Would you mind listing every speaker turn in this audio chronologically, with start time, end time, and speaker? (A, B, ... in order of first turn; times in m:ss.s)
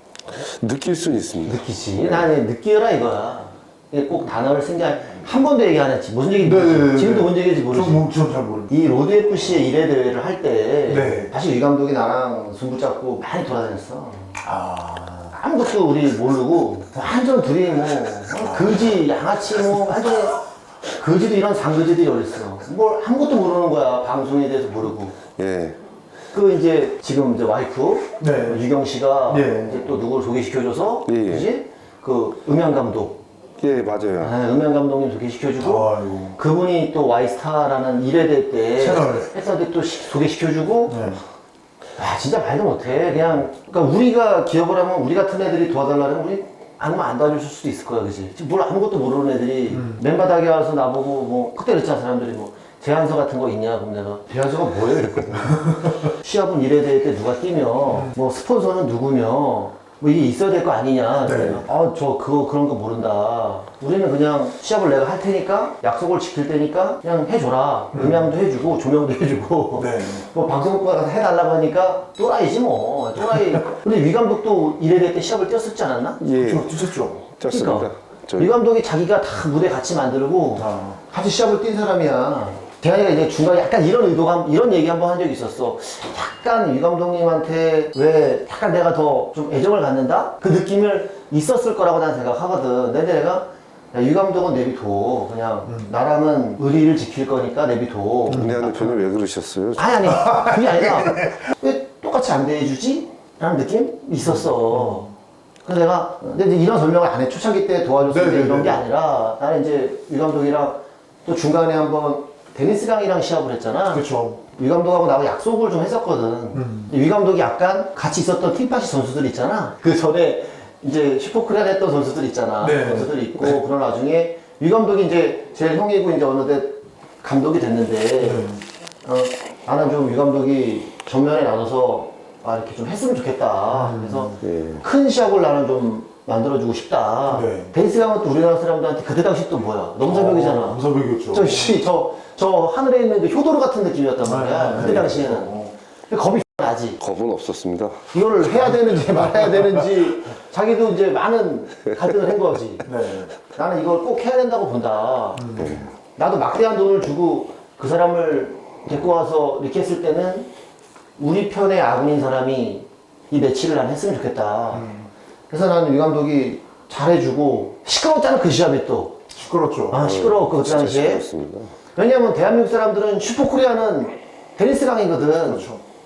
0:00.3-0:02.3 A
0:01.4-0:08.1 B
0:06.4-0:08.7 C
0:08.7-0:14.4 B
0:10.9-0:11.3 C
0:14.4-0:15.3 C
0:15.3-0:20.4 B
0:18.4-0:18.9 C
0:20.9-0:25.2 B
0:25.4-0:25.8 A
0:26.3-0:33.2 B
0:28.2-0:28.6 C
0:29.3-0:29.8 C
0:31.1-0:31.5 A
0:33.6-0:34.3 A
0:34.2-0:41.1 B
0:35.6-0:36.4 C
0:38.8-0:39.3 C
0:40.9-0:41.2 C
0:42.0-1:16.2 B
0:49.7-0:50.0 C
0:57.9-0:58.1 C
1:01.2-1:01.7 C
1:07.9-1:08.3 C
1:09.8-1:10.2 C
1:13.2-1:13.6 C
1:16.2-1:18.5 A
1:16.4-1:17.2 C
1:17.5-1:39.0 B
1:20.6-1:21.0 C
1:38.3-1:38.6 C
1:38.3-1:40.1 A
1:39.8-1:45.1 B
1:40.1-1:41.4 C
1:44.2-1:45.1 C
1:45.6-2:08.5 B
1:48.1-1:48.8 C
1:53.9-1:54.4 C
1:56.5-1:56.9 C
2:02.6-2:03.6 C
2:08.2-2:08.6 C
2:09.0-2:25.5 B
2:13.7-2:14.3 C
2:14.4-2:14.8 A
2:17.3-2:17.7 C
2:20.0-2:21.8 C
2:24.2-2:25.7 C
2:24.8-2:25.1 A
2:26.1-2:27.0 B
2:27.0-2:28.0 A
2:28.1-2:32.9 B
2:28.6-2:29.8 C
2:32.8-2:33.3 C
2:33.5-2:40.5 B
2:35.4-2:35.8 C
2:35.6-2:35.9 A
2:41.2-2:44.9 B
2:44.7-2:45.1 C
2:45.5-2:49.2 B
2:49.3-2:50.1 C
2:49.9-2:51.3 B
2:49.9-2:51.7 A
2:51.9-2:55.7 B
2:55.4-2:55.8 C